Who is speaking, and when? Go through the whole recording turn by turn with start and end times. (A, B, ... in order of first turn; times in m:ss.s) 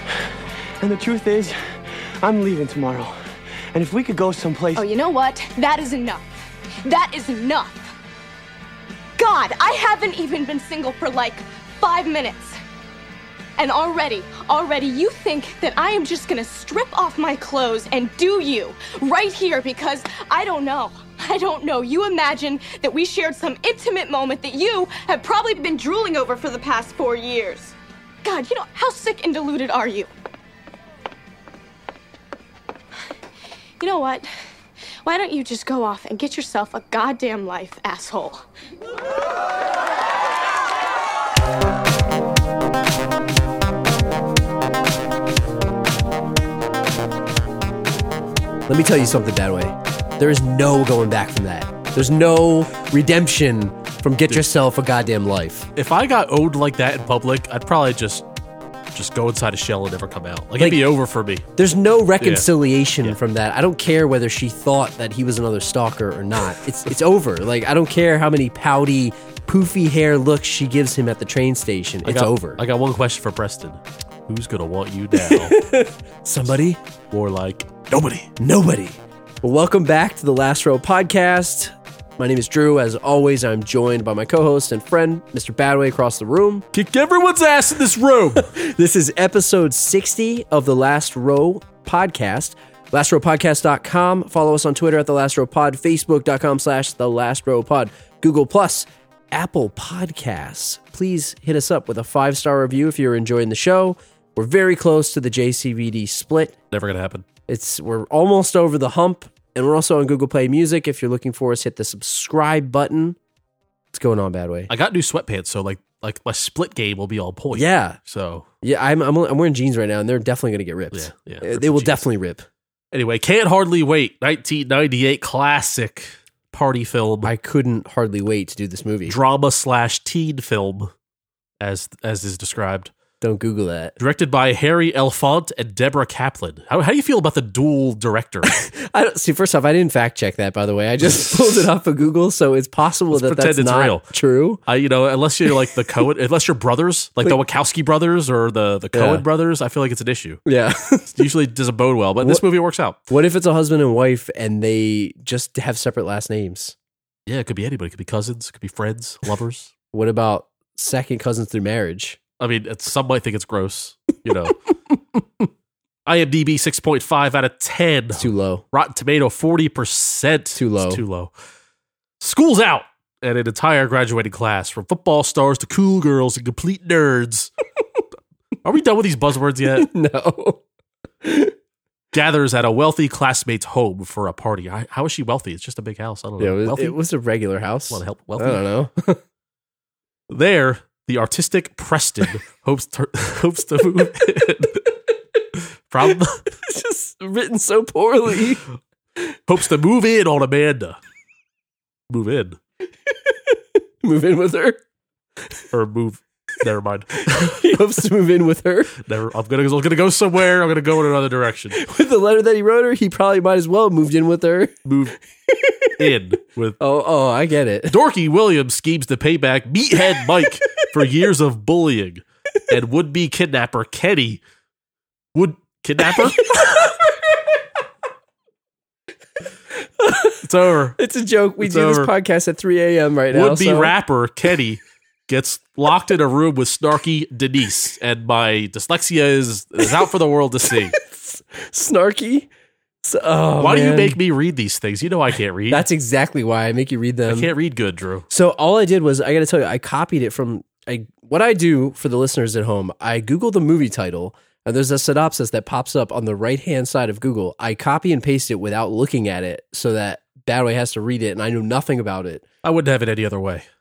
0:00.8-0:01.6 A
0:02.2-0:03.2 A
0:03.7-0:04.8 A
0:04.8-0:06.2 B
0:06.8-0:07.9 B
0:09.2-0:12.6 B
0:13.6-0:30.1 B
0:33.8-0:34.3 B
0:35.0-0:38.4 B
0:48.7-0:55.7 C
0:55.8-0:58.3 D
0:58.9-1:01.4 D
1:00.6-1:00.8 C
1:01.6-1:12.6 C
1:02.2-1:02.5 D
1:12.0-1:15.6 D
1:15.1-1:16.8 C
1:17.1-1:18.3 D
1:18.4-1:26.6 C
1:26.7-1:28.5 D
1:28.4-1:46.6 C
1:46.7-1:47.2 D
1:47.5-1:53.2 C
1:53.9-1:54.7 C
1:54.7-1:58.5 D
1:57.5-1:58.0 C
1:58.6-2:02.4 C
2:00.9-2:02.0 D
2:02.9-2:07.3 D
2:07.2-2:09.2 C
2:09.1-2:10.9 D
2:11.6-2:12.9 D
2:13.2-2:14.0 C
2:14.0-2:18.5 D
2:18.4-2:24.6 C
2:23.1-2:24.0 D
2:24.7-2:30.4 D
2:28.9-2:29.2 C
2:30.5-2:31.3 C
2:31.2-2:33.0 D
2:33.1-2:36.8 C
2:37.3-2:39.7 D
2:39.9-2:42.2 C
2:42.4-2:44.6 D
2:46.1-2:51.3 D
2:48.1-2:48.6 C
2:50.6-2:51.0 C
2:52.2-2:57.5 D
2:58.6-2:59.9 D
2:59.7-3:00.6 C
3:01.2-3:01.6 C
3:02.1-3:07.0 D
3:06.4-3:09.2 C
3:07.9-3:08.6 D
3:10.3-3:14.8 D
3:15.6-3:16.4 D
3:16.1-3:18.7 C
3:19.5-3:21.0 D
3:22.1-3:22.6 D
3:23.1-3:24.8 C
3:25.7-3:27.6 D
3:27.2-3:29.0 C
3:29.0-3:31.8 D
3:31.7-3:34.8 C
3:34.8-3:35.2 D
3:35.5-3:35.9 C
3:36.0-3:36.8 D
3:36.8-3:38.0 C
3:37.9-3:44.4 D
3:45.3-3:46.5 D
3:46.0-3:47.2 C
3:50.0-3:50.4 C
3:50.4-3:51.0 D
3:51.0-3:53.9 C
3:51.6-3:52.1 D
3:53.3-4:00.9 D
4:00.7-4:02.5 C
4:03.0-4:04.2 C
4:03.6-4:05.8 D
4:05.7-4:07.5 C
4:07.3-4:08.3 D
4:08.3-4:22.4 C
4:22.6-4:23.7 D